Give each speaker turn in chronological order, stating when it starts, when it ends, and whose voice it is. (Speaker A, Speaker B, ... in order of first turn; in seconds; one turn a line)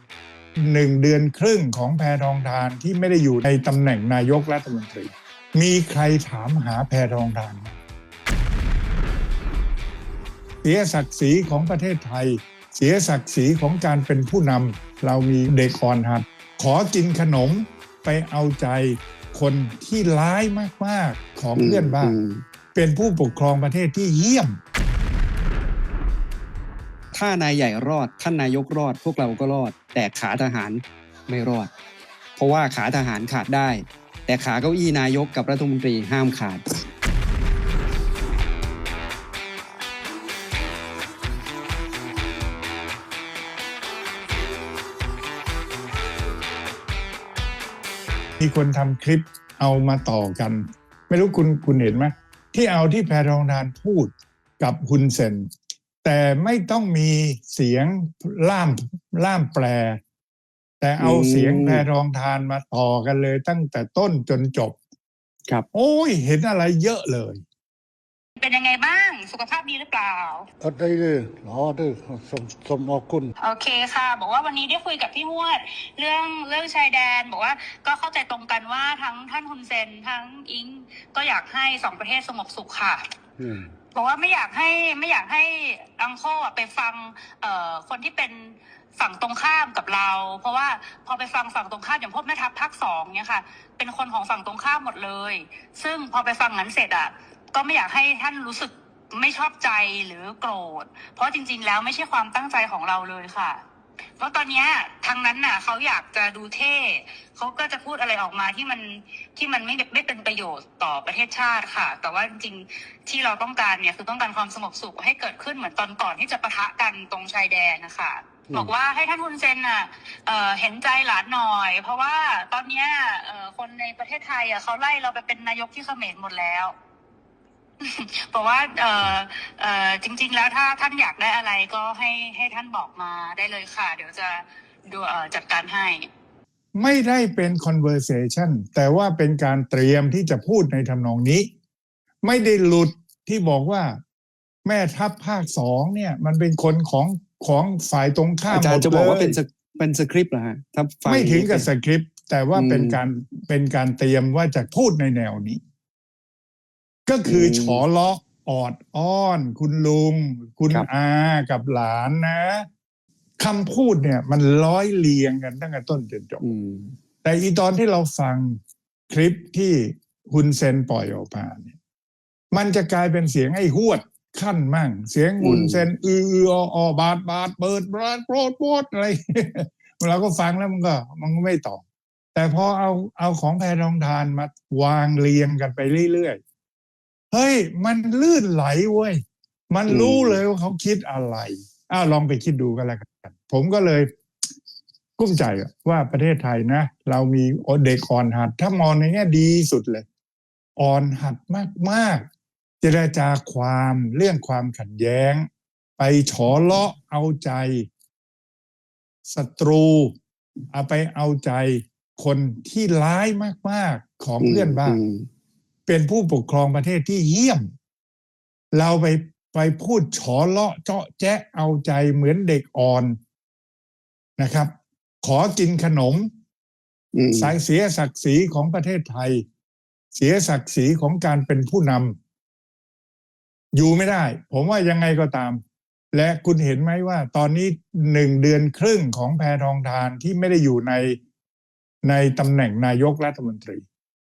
Speaker A: 0.6-7.8
Speaker A: 10.6-22.2
Speaker B: 21.6-22.4
Speaker A: 22.7-24.6
Speaker B: 27.1-31.7
Speaker B: 32.4-36.6
Speaker A: 48.4-55.5
Speaker A: 56.0-60.0
Speaker A: 60.8-64.8
Speaker B: 61.0-61.8
Speaker A: 65.7-67.4
Speaker C: 68.4-70.5
Speaker D: 70.6-73.3
Speaker C: 73.4-83.0
Speaker D: 83.4-83.7
Speaker C: 83.9-103.6
Speaker C: 104.2-126.7
Speaker C: 127.8-136.1
Speaker A: 136.8-141.5
Speaker A: 142.2-144.0
Speaker A: 144.6-149.4
Speaker B: 148.5-151.7
Speaker A: 151.1-155.6
Speaker B: 152.5-153.0
Speaker A: 157.1-162.7
Speaker B: 157.2-157.8
Speaker A: 163.4-166.4
Speaker B: 166.4-166.9
Speaker A: 167.2-171.7
Speaker A: 172.5-181.8
Speaker B: 175.4-175.8
Speaker A: 182.3-186.4
Speaker A: 187.3-189.2
Speaker A: 189.7-194.1
Speaker B: 189.9-190.4
Speaker A: 195.2-200.0
Speaker A: 200.8-202.3
Speaker A: 202.8-205.5
Speaker A: 206.0-207.9
Speaker A: 209.3-210.1
Speaker A: 210.7-215.0
Speaker B: 214.4-215.2
Speaker A: 215.9-217.7
Speaker A: 218.7-223.2
Speaker A: 224.4-224.7
Speaker A: 225.2-226.3
Speaker B: 227.1-227.6
Speaker A: 227.3-229.4
Speaker A: 230.1-232.2
Speaker A: 233.7-235.6
Speaker A: 236.1-241.2
Speaker A: 242.0-243.8